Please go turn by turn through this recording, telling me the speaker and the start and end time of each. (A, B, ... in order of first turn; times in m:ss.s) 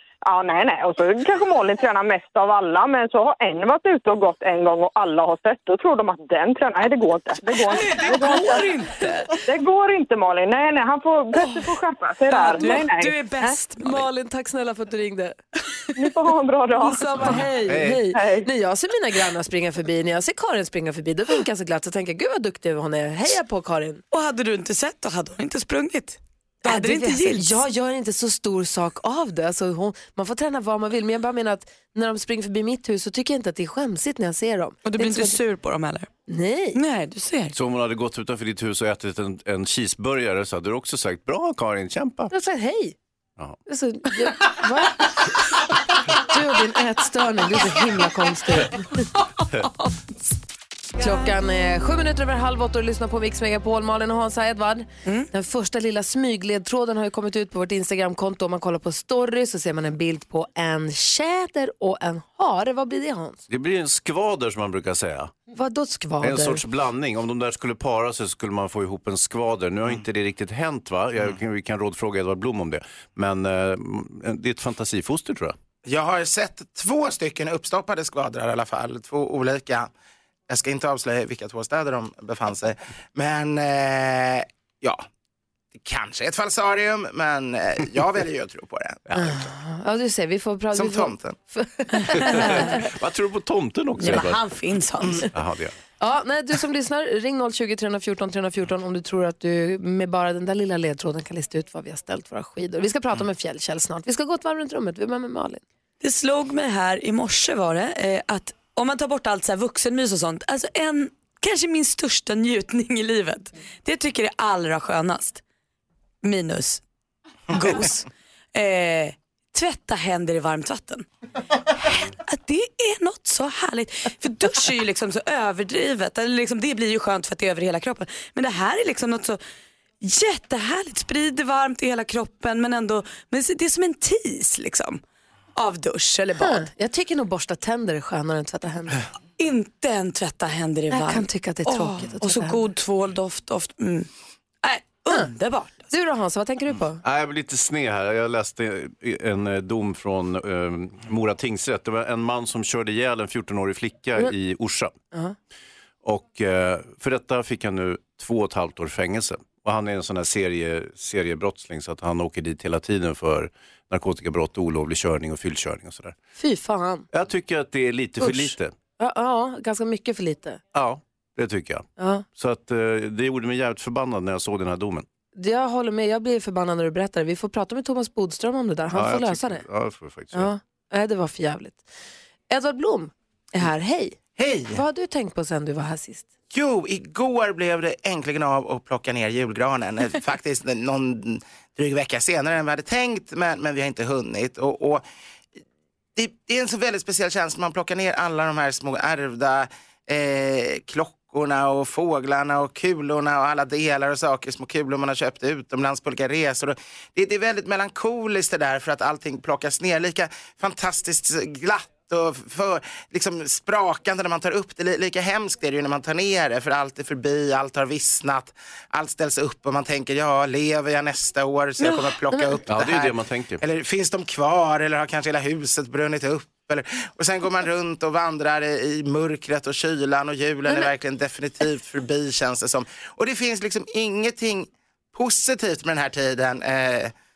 0:00.3-0:08.7 A
0:07.6-0:09.4 B
0:09.4-0:13.6 A
0:11.4-0:11.7 B
0:12.3-0:14.1 B
0:13.8-0:15.8 C
0:16.0-0:17.4 A
0:16.8-0:24.0 C
0:17.2-0:18.0 D
0:18.1-0:18.5 A
0:24.1-0:27.6 B
0:26.6-0:35.4 C
0:34.8-0:36.1 B
0:36.3-0:36.8 C
0:36.8-0:37.6 B
0:37.5-0:42.3 D
0:42.3-0:43.0 C
0:43.7-0:45.3 C
0:46.1-0:49.1 C
0:51.0-1:03.4 C
1:03.5-1:05.3 D
1:05.5-1:06.6 C
1:06.2-1:15.6 D
1:15.8-1:19.9 E
1:20.5-1:25.0 E
1:25.8-1:29.1 E
1:29.1-1:29.4 D
1:29.2-1:32.8 C
1:30.7-1:31.4 E
1:32.1-1:32.6 B
1:32.2-1:34.4 D
1:34.0-1:35.3 B
1:35.3-1:35.8 D
1:36.0-1:45.6 C
1:46.0-1:55.4 B
1:56.2-1:56.8 B
1:57.5-2:01.1 B
2:01.8-2:09.4 B
2:10.0-2:15.0 B
2:15.6-2:16.7 B
2:16.4-2:19.0 C
2:19.4-2:24.1 B
2:20.9-2:22.6 C
2:24.6-2:25.9 B
2:25.9-2:27.0 C
2:27.0-2:35.0 D
2:36.0-2:46.2 D
2:46.4-2:47.1 C
2:47.1-2:48.7 D
2:48.2-2:50.6 C
2:50.7-2:55.1 D
2:52.0-2:52.2 C
2:55.4-2:59.6 C
2:58.9-3:00.5 D
3:00.3-3:01.9 C
3:02.5-3:06.3 C
3:04.4-3:04.8 E
3:06.5-3:15.0 E
3:16.2-3:57.1 E
3:42.7-3:43.6 D